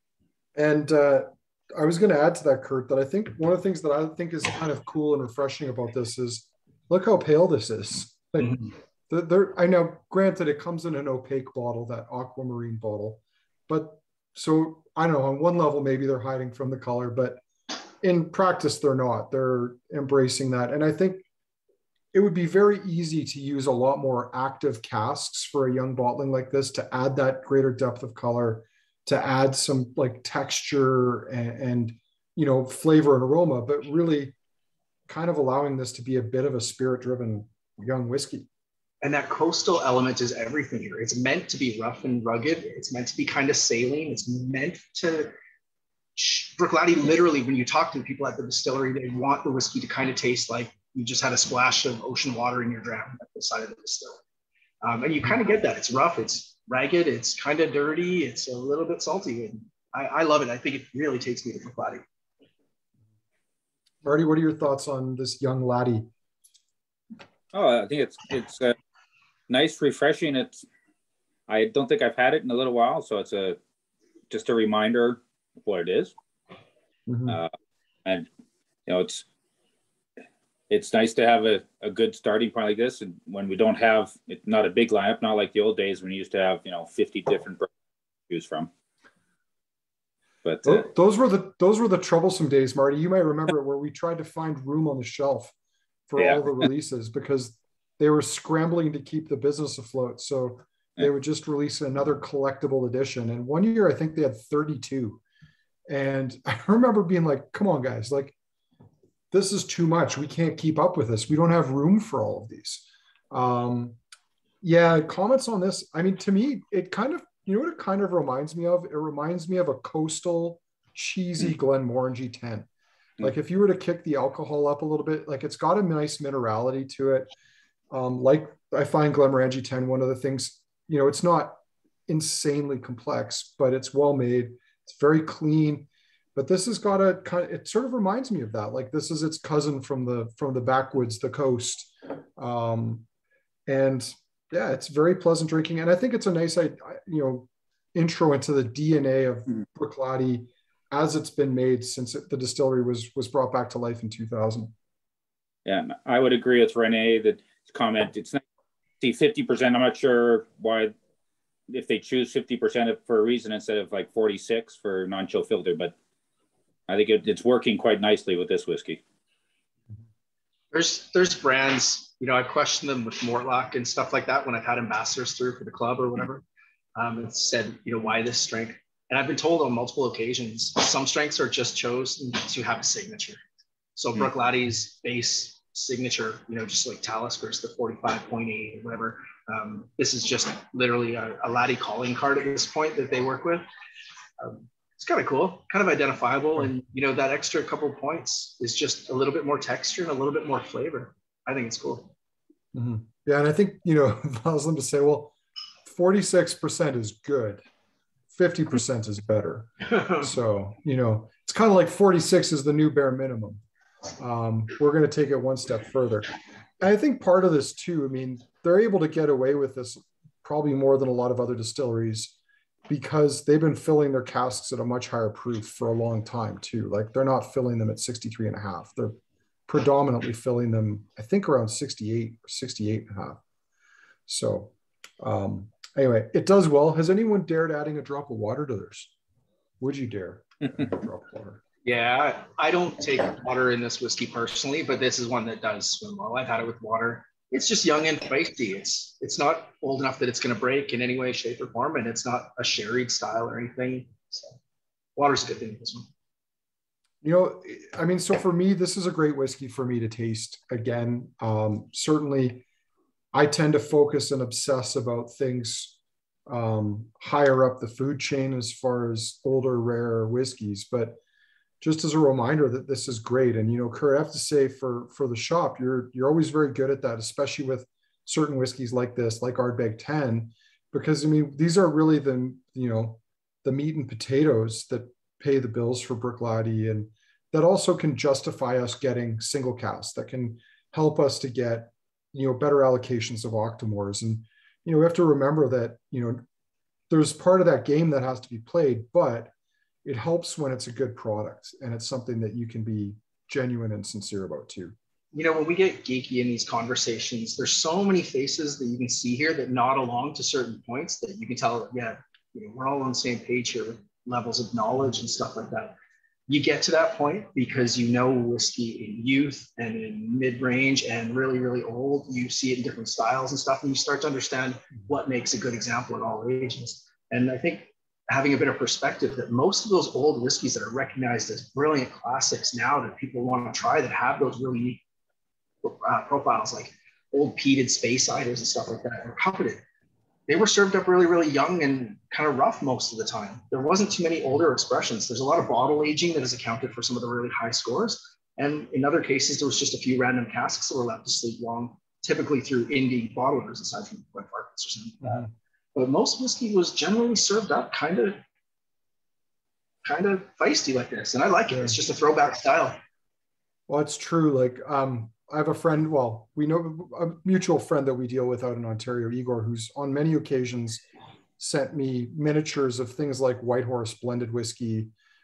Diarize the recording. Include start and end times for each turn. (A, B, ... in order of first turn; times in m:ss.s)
0:00.5-0:17.4 A
0:18.0-0:21.2 A
0:22.1-0:34.4 A
0:35.1-0:38.5 A
0:39.0-0:45.3 B
0:46.2-0:54.2 B
0:54.8-1:02.0 B
1:04.0-1:06.1 A
1:07.5-1:08.8 C
1:09.5-1:10.6 C
1:11.5-1:13.6 C
1:14.3-1:16.1 C
1:17.1-1:17.4 A
1:18.9-1:19.2 C
1:20.7-1:27.7 C
1:28.3-1:28.7 C
1:30.4-1:30.8 C
1:30.6-1:35.5 A
1:36.1-1:45.2 A
1:45.9-1:48.4 A
1:49.3-1:54.0 A
1:54.6-2:02.7 A
2:03.2-2:07.3 A
2:07.9-2:23.0 A
2:23.7-2:34.7 A
2:35.6-2:38.4 C
2:39.0-2:40.9 C
2:41.7-2:45.9 C
2:46.9-2:49.0 C
2:50.7-2:56.4 B
2:56.9-3:03.4 B
3:04.0-3:13.6 B
3:14.4-3:22.1 B
3:22.7-3:25.3 A
3:25.8-3:27.6 A
3:28.3-3:33.6 A
3:34.2-3:42.4 A
3:42.9-3:49.2 A
3:49.7-3:53.4 A
3:54.3-3:59.1 A
3:59.8-4:01.6 A
4:01.8-4:14.6 B
4:15.2-4:16.1 B
4:17.2-4:22.6 A
4:23.3-4:31.2 A
4:31.8-4:56.4 A
4:57.1-4:59.5 A
5:00.0-5:04.9 A
5:05.3-5:16.0 B
5:16.5-5:35.0 B
5:35.8-5:39.8 B
5:40.5-5:58.4 B
5:55.2-5:55.5 A
6:00.0-6:03.0 B
6:01.7-6:02.0 A
6:03.9-6:11.0 A
6:11.6-6:15.1 A